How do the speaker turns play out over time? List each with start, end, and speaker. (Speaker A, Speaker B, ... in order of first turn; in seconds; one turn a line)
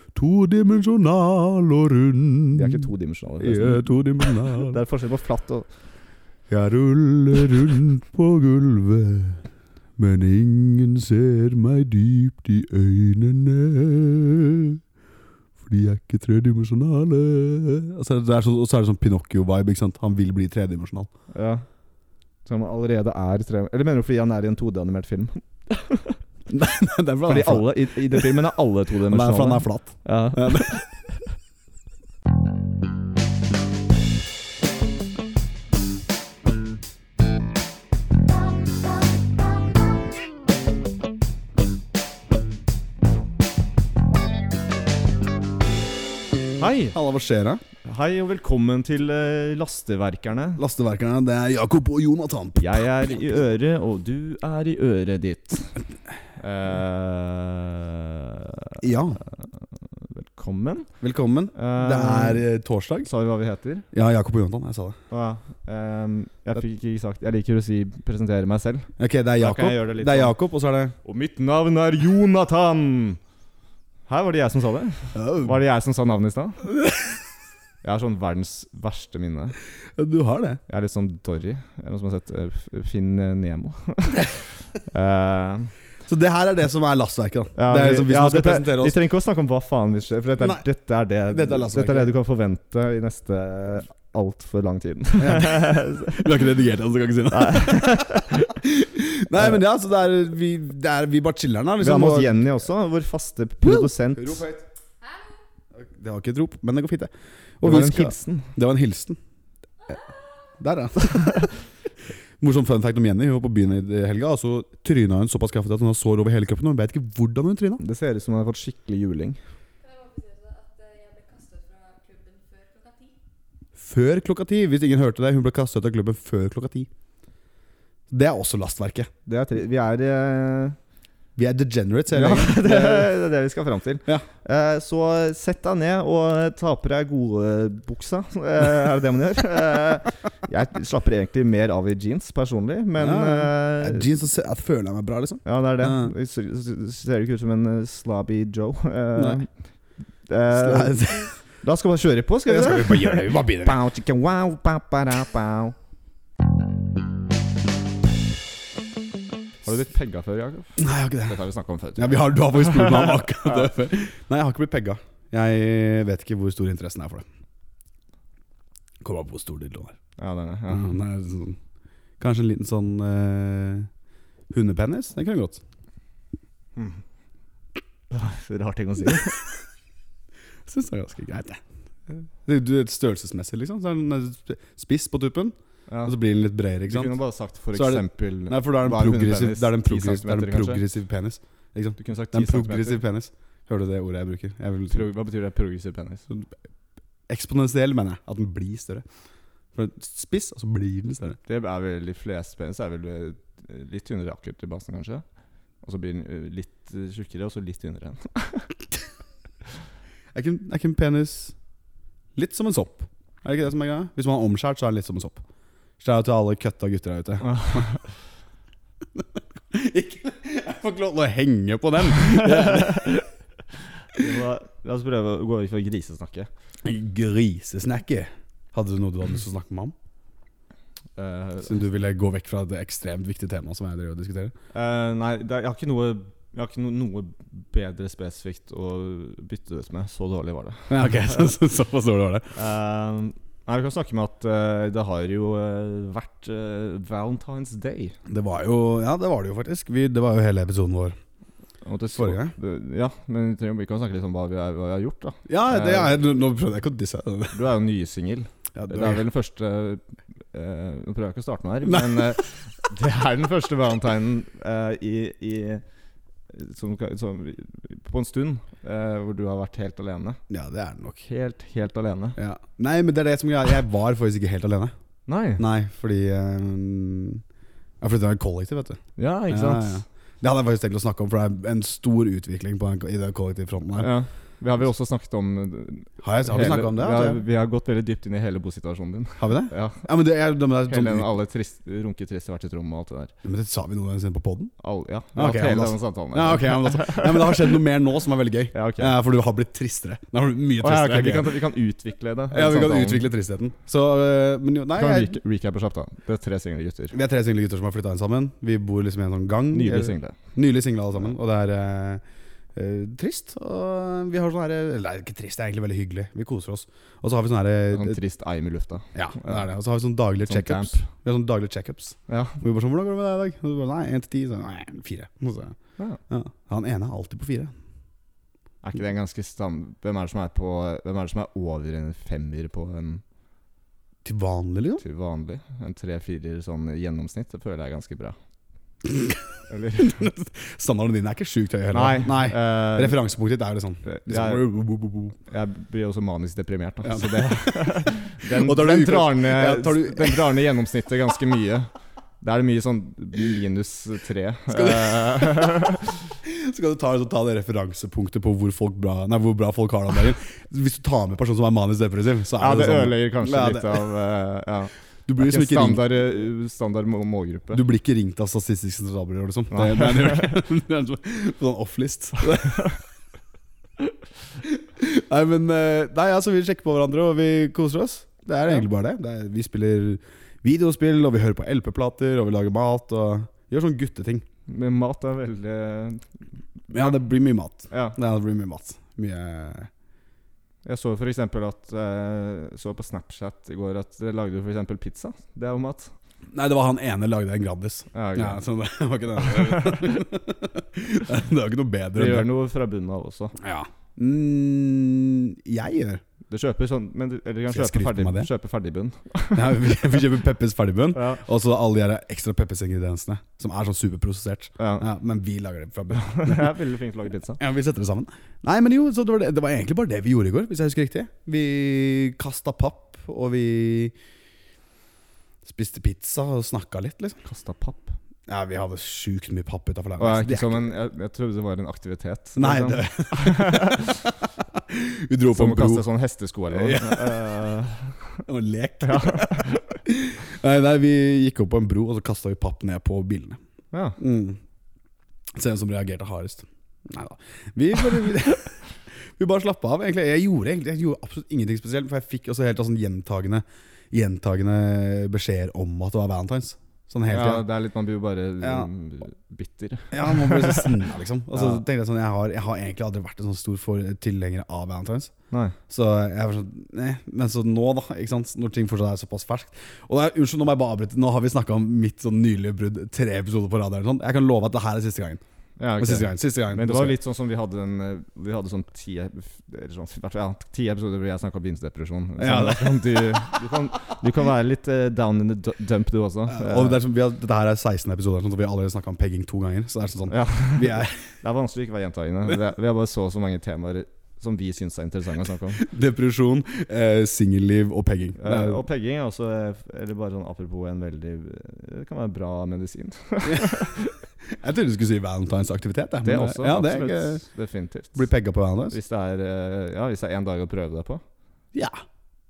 Speaker A: 0.1-2.8
Speaker B: 2.5-5.7
Speaker A: 3.4-4.8
Speaker A: 6.5-9.4
Speaker A: 10.0-14.8
Speaker A: 15.6-21.1
Speaker B: 21.3-21.6
Speaker B: 22.4-26.2
Speaker A: 26.5-28.5
Speaker B: 27.2-30.8
Speaker A: 29.1-30.8
Speaker B: 46.6-47.0
Speaker A: 46.9-47.6
Speaker B: 47.8-50.6
Speaker A: 50.6-52.7
Speaker B: 52.6-55.8
Speaker B: 56.4-60.9
Speaker A: 58.8-59.2
Speaker A: 61.0-63.1
Speaker B: 61.5-62.4
Speaker B: 63.0-63.9
Speaker A: 63.9-65.0
Speaker B: 65.1-70.3
Speaker A: 69.0-70.9
Speaker B: 71.0-73.2
Speaker B: 74.1-76.7
Speaker A: 75.1-75.5
Speaker A: 76.8-77.1
Speaker B: 77.8-79.5
Speaker A: 80.0-80.6
Speaker B: 80.7-85.7
Speaker A: 86.0-89.0
Speaker B: 87.5-96.2
Speaker A: 90.4-90.6
Speaker A: 91.3-92.1
Speaker A: 95.2-102.3
Speaker B: 97.3-98.4
Speaker B: 101.8-104.4
Speaker A: 103.6-104.6
Speaker C: 105.0-105.4
Speaker A: 105.7-109.2
Speaker B: 107.6-108.5
Speaker A: 110.6-111.5
Speaker A: 112.4-117.8
Speaker B: 117.8-119.4
Speaker C: 119.8-123.2
Speaker A: 123.8-126.9
Speaker A: 128.1-129.1
Speaker B: 129.2-130.8
Speaker A: 131.3-133.1
Speaker B: 132.1-144.1
Speaker A: 143.0-146.1
Speaker B: 145.4-149.5
Speaker A: 149.2-149.4
Speaker B: 150.3-155.7
Speaker A: 150.5-151.3
Speaker A: 152.4-153.8
Speaker B: 159.6-163.7
Speaker A: 160.8-161.4
Speaker A: 161.9-167.2
Speaker A: 169.0-170.0
Speaker B: 170.2-170.9
Speaker A: 170.7-171.6
Speaker A: 172.2-173.9
Speaker A: 174.5-175.6
Speaker B: 176.8-177.0
Speaker B: 178.1-179.4
Speaker A: 180.7-187.2
Speaker B: 185.9-186.1
Speaker B: 186.9-190.8
Speaker A: 187.7-195.0
Speaker B: 192.0-193.0
Speaker B: 194.9-196.2
Speaker A: 197.3-199.0
Speaker A: 199.7-201.4
Speaker B: 201.4-205.2
Speaker B: 205.8-208.7
Speaker A: 210.3-211.6
Speaker A: 212.3-215.4
Speaker A: 216.0-217.9
Speaker B: 217.4-218.1
Speaker A: 219.1-223.2
Speaker B: 222.2-223.2
Speaker B: 224.1-226.5
Speaker A: 226.8-229.9
Speaker B: 231.2-231.8
Speaker A: 231.6-234.5
Speaker B: 234.7-241.5
Speaker A: 240.9-242.5
Speaker B: 242.5-248.2
Speaker A: 248.3-251.2
Speaker B: 251.8-256.2
Speaker A: 252.1-252.5
Speaker A: 255.5-257.6
Speaker B: 257.5-265.8
Speaker A: 258.7-259.2
Speaker A: 261.9-262.1
Speaker B: 266.5-270.4
Speaker A: 270.5-271.2
Speaker B: 271.2-272.4
Speaker A: 272.4-274.9
Speaker B: 275.3-275.6
Speaker A: 275.6-277.4
Speaker A: 278.0-284.1
Speaker B: 279.2-280.0
Speaker B: 284.0-290.1
Speaker A: 286.2-287.4
Speaker A: 289.4-291.3
Speaker B: 290.9-293.3
Speaker A: 293.4-294.7
Speaker B: 294.8-297.7
Speaker A: 295.3-301.5
Speaker B: 298.7-299.1
Speaker B: 300.8-303.3
Speaker A: 302.5-305.3
Speaker B: 304.9-307.1
Speaker A: 307.1-312.2
Speaker B: 309.7-310.4
Speaker A: 312.7-318.2
Speaker B: 317.9-319.6
Speaker A: 319.1-325.8
Speaker B: 320.4-321.1
Speaker B: 322.3-322.6
Speaker A: 326.3-327.7
Speaker B: 328.8-333.2
Speaker A: 334.2-335.0
Speaker B: 335.0-338.4
Speaker A: 339.0-345.3
Speaker B: 339.7-340.2
Speaker B: 341.9-343.2
Speaker B: 344.0-344.7
Speaker B: 345.4-356.2
Speaker A: 347.0-350.6
Speaker A: 354.7-355.6
Speaker A: 356.4-364.1
Speaker B: 362.6-367.8
Speaker A: 365.3-366.1
Speaker A: 367.7-372.9
Speaker B: 369.7-370.6
Speaker A: 374.6-384.4
Speaker B: 384.7-386.3
Speaker B: 386.9-387.2
Speaker A: 386.9-389.9
Speaker B: 387.9-388.2
Speaker B: 390.8-396.1
Speaker A: 396.5-402.5
Speaker B: 398.1-398.6
Speaker B: 399.4-400.2
Speaker B: 402.1-403.6
Speaker A: 403.6-406.2
Speaker B: 406.5-410.2
Speaker A: 407.7-408.5
Speaker A: 409.5-416.7
Speaker B: 411.1-411.4
Speaker B: 414.8-415.1
Speaker B: 416.1-417.6
Speaker A: 417.6-424.1
Speaker A: 425.6-427.4
Speaker B: 427.4-428.1
Speaker A: 428.5-430.9
Speaker B: 430.2-434.3
Speaker A: 432.6-434.1
Speaker A: 434.7-436.1
Speaker B: 435.5-438.4
Speaker A: 436.7-437.7
Speaker A: 438.4-443.6
Speaker B: 439.0-439.9
Speaker B: 443.9-444.2
Speaker A: 444.2-444.6
Speaker A: 445.5-457.6
Speaker B: 457.3-460.9
Speaker A: 458.6-458.9
Speaker A: 460.1-465.3
Speaker B: 461.5-461.8
Speaker B: 465.5-465.8
Speaker A: 465.9-475.4
Speaker B: 475.8-487.0
Speaker A: 476.0-477.1
Speaker A: 482.4-483.6
Speaker A: 486.5-491.3
Speaker B: 490.3-495.8
Speaker A: 495.8-498.8
Speaker B: 498.4-504.1
Speaker A: 504.5-507.4
Speaker B: 506.2-508.3
Speaker A: 508.1-509.0
Speaker B: 508.9-511.2
Speaker A: 511.7-512.0